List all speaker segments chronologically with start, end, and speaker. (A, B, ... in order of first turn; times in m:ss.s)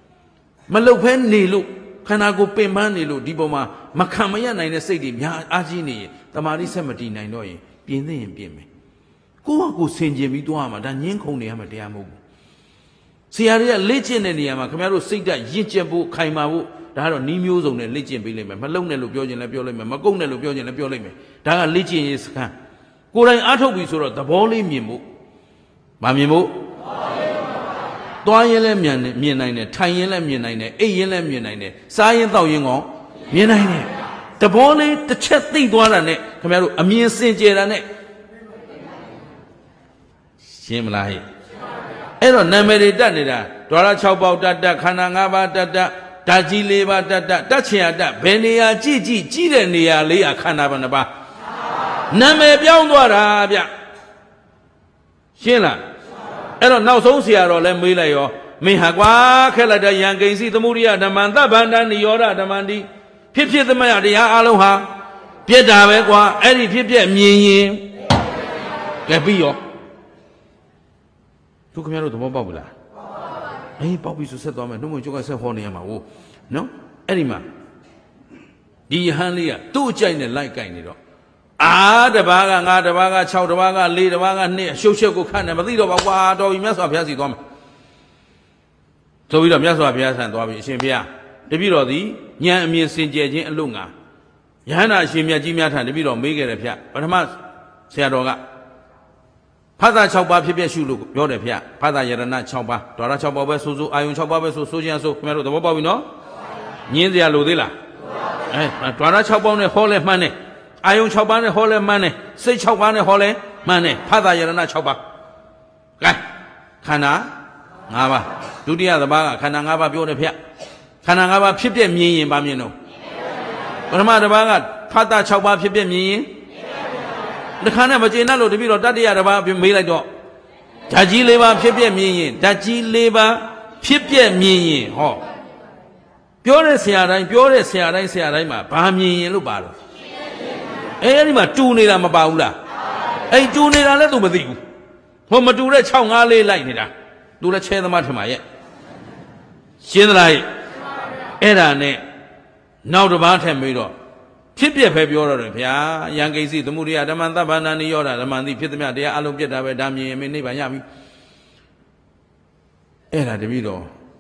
0:00.7-0:08.7 A
0:09.4-0:12.2 A
0:13.3-0:22.5 A
0:23.1-0:25.0 A
0:26.0-0:26.6 A
0:28.2-0:37.9 A
0:40.4-0:41.2 A
0:42.2-0:51.1 A
0:52.1-0:53.7 A
0:55.4-0:55.8 A
0:56.6-1:04.9 A
1:05.5-1:07.9 A
1:09.1-1:09.6 A
1:11.7-1:12.7 A
1:13.8-1:17.4 A
1:18.9-1:21.0 A
1:21.6-1:27.4 A
1:29.3-1:33.9 A
1:34.7-1:37.4 A
1:37.9-1:38.4 A
1:39.8-1:46.1 A
1:46.9-1:47.8 A
1:48.5-1:55.0 A
1:56.8-1:57.3 A
1:57.9-2:00.4 A
2:01.0-2:02.7 A
2:03.9-2:06.3 A
2:07.6-2:10.1 A
2:10.9-2:15.2 A
2:16.4-2:19.8 A
2:21.0-2:22.6 A
2:23.3-2:24.6 A
2:25.3-2:28.4 A
2:29.8-2:30.5 A
2:31.4-2:32.0 A
2:32.8-2:33.9 A
2:34.6-2:40.8 A
2:43.1-2:43.9 A